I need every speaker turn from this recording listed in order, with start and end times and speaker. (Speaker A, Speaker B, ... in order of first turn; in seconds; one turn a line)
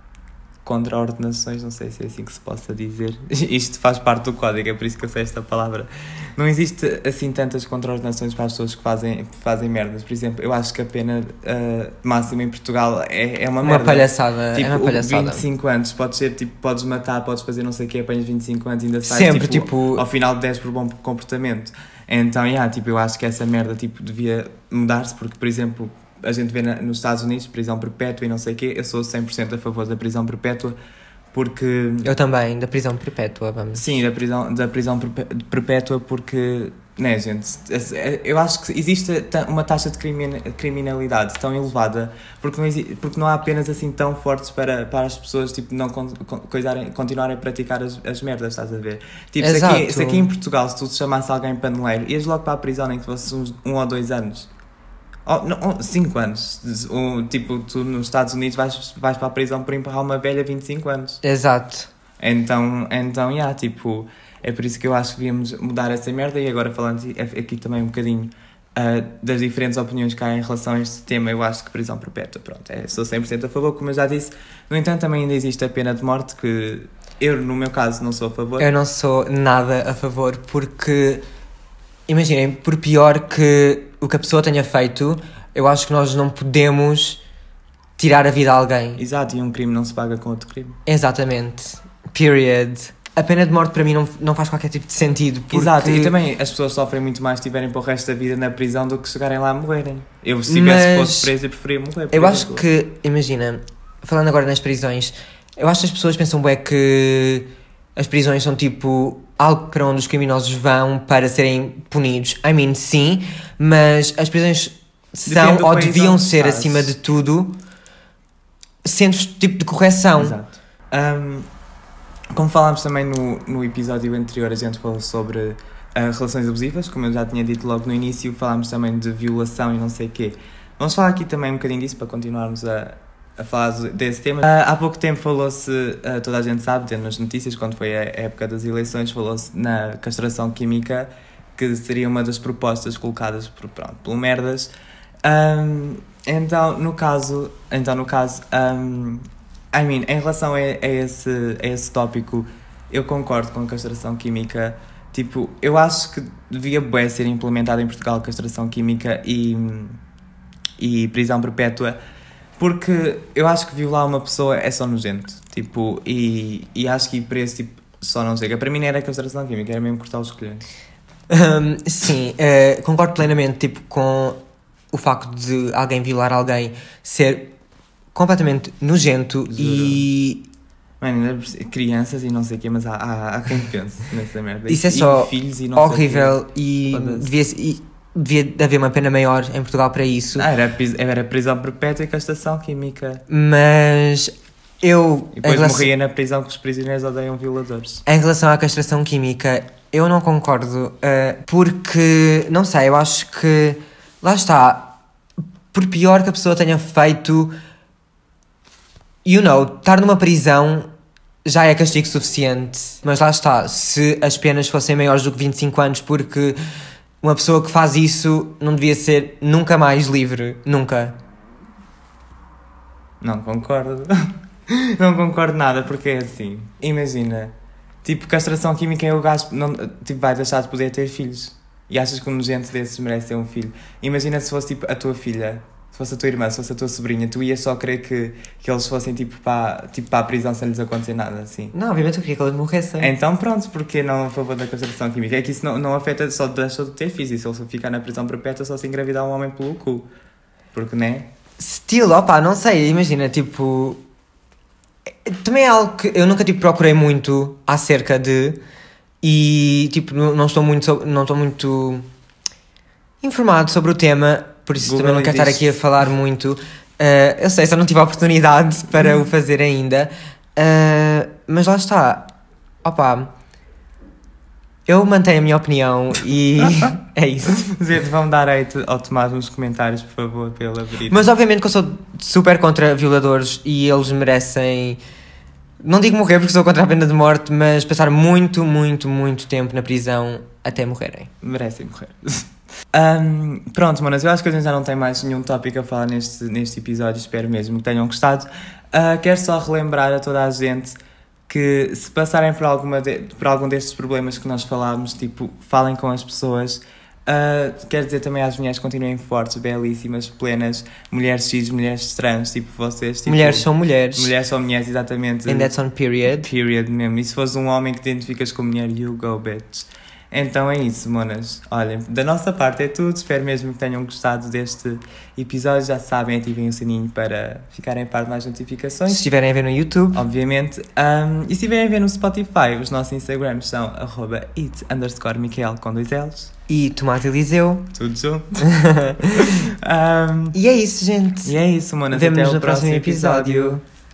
Speaker A: 0.7-30.8
Speaker B: 13.6-15.4
Speaker B: 19.1-20.1
Speaker A: 31.3-32.1
Speaker B: 32.0-33.9
Speaker A: 33.7-54.5
Speaker B: 49.4-50.3
Speaker A: 55.3-61.2
Speaker B: 61.2-61.9
Speaker A: 62.2-78.7
Speaker B: 78.6-81.2
Speaker B: 82.1-87.2
Speaker B: 88.0-89.0
Speaker A: 89.0-90.8
Speaker B: 90.9-96.2
Speaker A: 95.5-102.7
Speaker B: 100.5-101.3
Speaker B: 102.1-117.5
Speaker A: 115.3-116.9
Speaker B: 118.8-120.4
Speaker A: 120.2-121.5
Speaker A: 122.3-144.7
Speaker A: 145.2-160.0
Speaker A: 160.8-162.0
Speaker A: 162.6-170.6
Speaker B: 171.3-174.4
Speaker B: 174.9-177.5
Speaker B: 178.2-180.5
Speaker A: 179.5-180.1
Speaker A: 181.0-187.3
Speaker B: 184.7-190.5
Speaker A: 190.3-193.2
Speaker B: 193.3-195.9
Speaker A: 195.4-198.0
Speaker B: 198.1-204.9
Speaker B: 205.7-207.5
Speaker B: 209.2-210.9
Speaker B: 211.4-216.6
Speaker B: 217.2-221.2
Speaker A: 223.2-224.1
Speaker A: 224.7-227.5
Speaker A: 228.0-241.7
Speaker B: 241.7-243.1
Speaker A: 243.0-250.1
Speaker A: 250.7-251.3
Speaker B: 251.6-254.0
Speaker B: 255.3-258.6
Speaker B: 259.2-262.1
Speaker B: 263.2-272.3
Speaker A: 264.8-265.8
Speaker B: 272.8-273.3
Speaker B: 274.9-277.6
Speaker A: 277.5-281.3
Speaker B: 281.1-285.0
Speaker B: 285.8-291.3
Speaker A: 291.4-301.0
Speaker A: 301.5-315.7
Speaker B: 313.3-314.3
Speaker B: 315.5-316.5
Speaker A: 316.4-329.3
Speaker B: 329.1-330.2
Speaker A: 330.1-336.5
Speaker B: 336.7-337.9
Speaker A: 337.9-338.7
Speaker B: 338.7-339.5
Speaker A: 339.4-340.6
Speaker B: 340.5-341.6
Speaker A: 341.4-343.8
Speaker B: 342.1-343.8